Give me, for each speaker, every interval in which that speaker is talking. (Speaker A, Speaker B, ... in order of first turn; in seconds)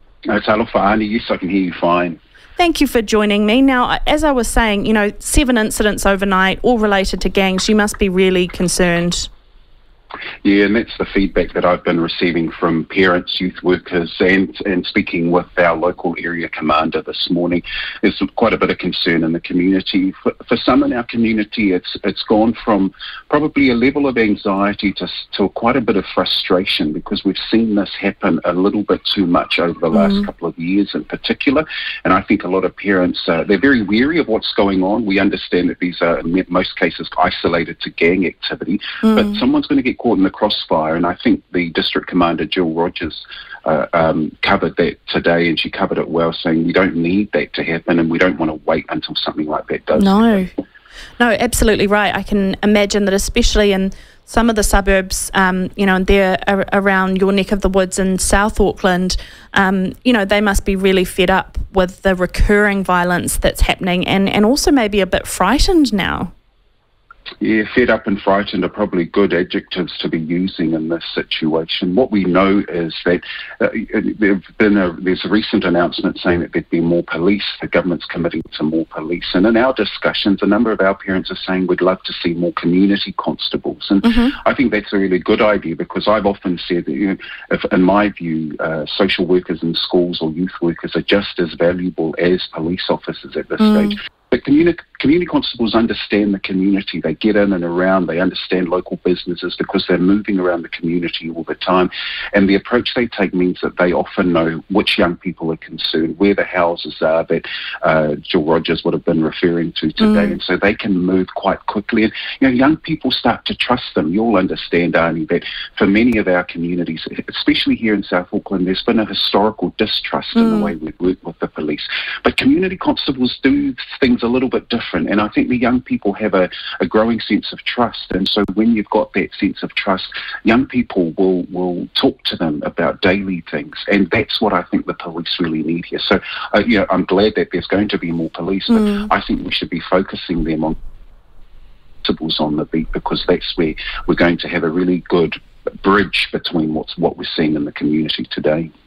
Speaker A: 0.3-2.2, 10.4-50.4, 67.4-140.8, 142.0-148.7
Speaker B: 2.6-9.3, 49.9-50.5, 51.2-66.3, 84.0-84.3, 93.6-93.9, 110.0-110.3, 120.3-120.7